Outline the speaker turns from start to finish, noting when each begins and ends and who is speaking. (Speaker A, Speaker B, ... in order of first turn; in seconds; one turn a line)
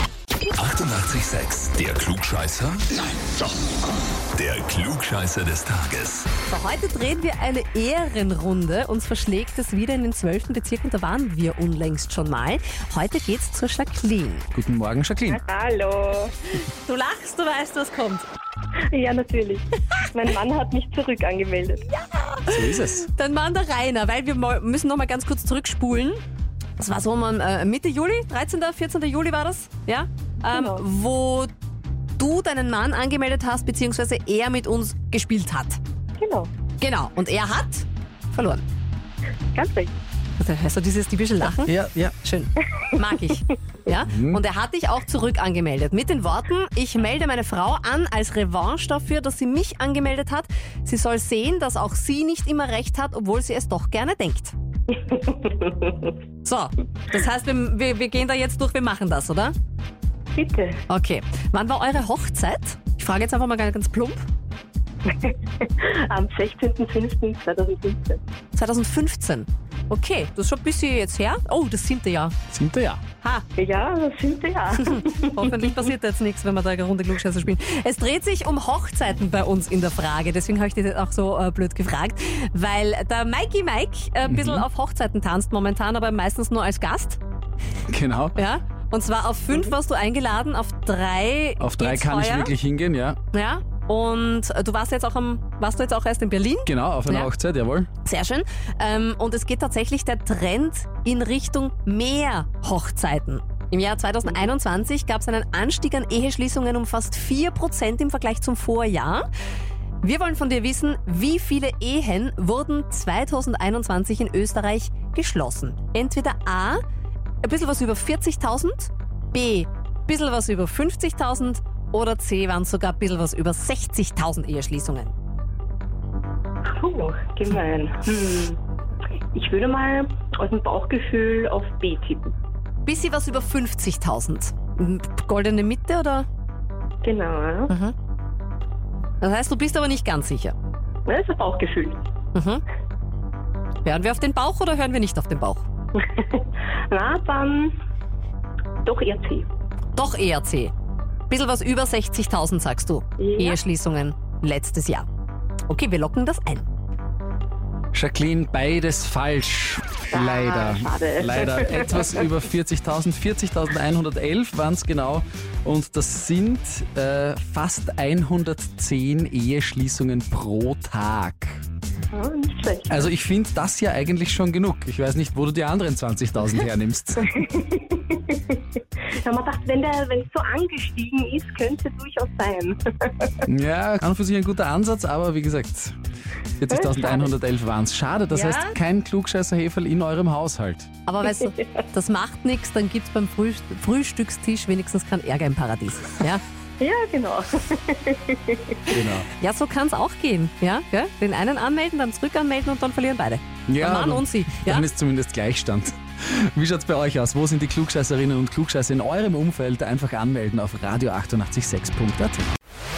Speaker A: 0.5-3.0
Speaker A: 4.3-6.3
Speaker B: 6.5-14.5
Speaker C: 14.5-15.4
Speaker D: 15.3-16.3
Speaker B: 16.6-18.3
Speaker D: 18.9-21.9
Speaker B: 21.8-26.2
Speaker C: 22.5-23.1
Speaker B: 26.8-31.5
Speaker D: 30.5-30.8
Speaker B: 32.2-35.8
Speaker D: 36.2-36.5
Speaker B: 36.8-38.6
Speaker D: 39.5-39.9
Speaker B: 40.4-54.5
Speaker C: 41.7-42.1
Speaker C: 44.1-44.4
Speaker D: 54.9-56.1
Speaker B: 56.4-59.5
Speaker D: 60.3-60.8
Speaker B: 60.9-64.2
Speaker D: 65.0-68.2
Speaker B: 68.5-72.3
Speaker C: 72.5-73.0
Speaker D: 73.6-75.8
Speaker B: 74.7-87.2
Speaker C: 84.2-84.6
Speaker C: 87.9-88.4
Speaker B: 88.3-92.5
Speaker C: 91.6-93.2
Speaker B: 93.3-97.3
Speaker C: 96.7-97.9
Speaker B: 98.0-109.2
Speaker B: 110.0-116.8
Speaker B: 117.4-125.1
Speaker D: 126.7-128.6
Speaker D: 129.3-132.3
Speaker B: 132.8-136.2
Speaker D: 137.0-137.7
Speaker B: 137.7-137.9
Speaker B: 139.2-140.5
Speaker D: 141.1-142.0
Speaker B: 142.3-142.6
Speaker B: 143.8-145.6
Speaker D: 145.9-147.7
Speaker D: 148.8-149.5
Speaker B: 149.9-150.7
Speaker B: 151.3-155.1
Speaker D: 153.2-153.6
Speaker B: 155.7-156.7
Speaker C: 157.9-171.6
Speaker D: 160.1-162.2
Speaker D: 172.1-173.1
Speaker C: 172.9-177.3
Speaker D: 177.3-183.4
Speaker C: 183.4-186.0
Speaker C: 186.6-190.9
Speaker D: 186.7-187.3
Speaker B: 188.3-188.7
Speaker B: 191.1-196.4
Speaker D: 191.4-191.8
Speaker D: 196.8-198.9
Speaker C: 198.9-199.3
Speaker B: 199.4-204.9
Speaker C: 203.7-212.5